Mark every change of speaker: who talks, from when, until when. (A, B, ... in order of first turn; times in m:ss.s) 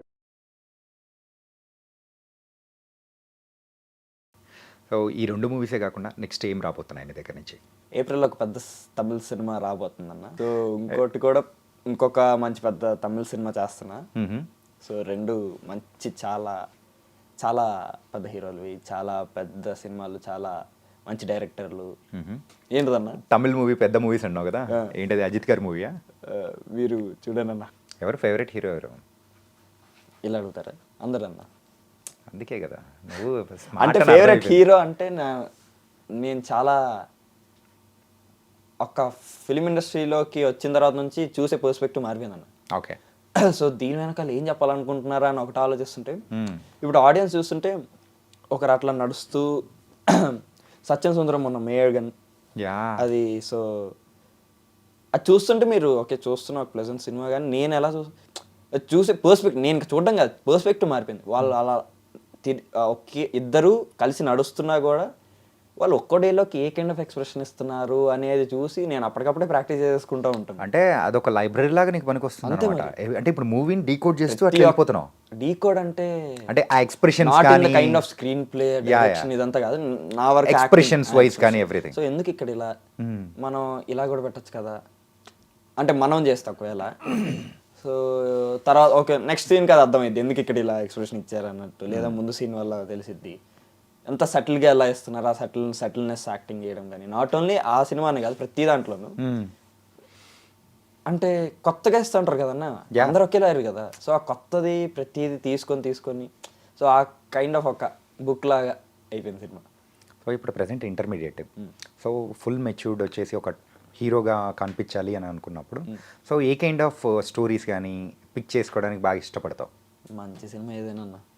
0:04.9-0:07.6 A
0:08.0-0:14.0 B
0:14.2-0:14.5 A
0:14.8-0:16.6 B
0:17.4-0:20.5 B
0:21.1-0:21.9 B
0:22.1-0:22.4 A
0:22.7-0:23.2 B
0:23.3-0:25.9 A
0:26.3-0:27.7 B
0:28.0-0:29.0 A
0:30.2-0:31.5 B
0:32.3-0:34.6 A
0:33.8-0:35.4 B
0:36.2-0:36.8 B
0:38.8-0:42.5 B
0:43.4-0:46.2 B
0:46.3-0:46.6 A
0:46.8-0:47.7 B
0:48.5-0:50.4 B
0:50.9-0:52.1 B
0:52.6-0:53.0 A
0:53.0-0:53.9 B
0:55.2-0:58.1 B
0:58.8-1:01.8 B
1:02.4-1:05.1 B
1:05.8-1:10.7 B
1:10.6-1:15.1 A
1:12.4-1:12.9 B
1:14.3-1:14.8 B
1:15.4-1:16.1 B
1:16.5-1:18.0 A
1:17.2-1:22.7 B
1:18.8-1:19.3 A
1:20.4-1:22.0 A
1:23.0-1:23.3 A
1:23.4-1:24.8 B
1:25.8-1:33.4 B
1:31.9-1:32.2 A
1:34.1-1:39.2 B
1:39.2-1:39.5 A
1:41.1-1:49.6 B
1:50.2-1:51.5 A
1:52.0-1:59.7 A
2:00.2-2:01.2 B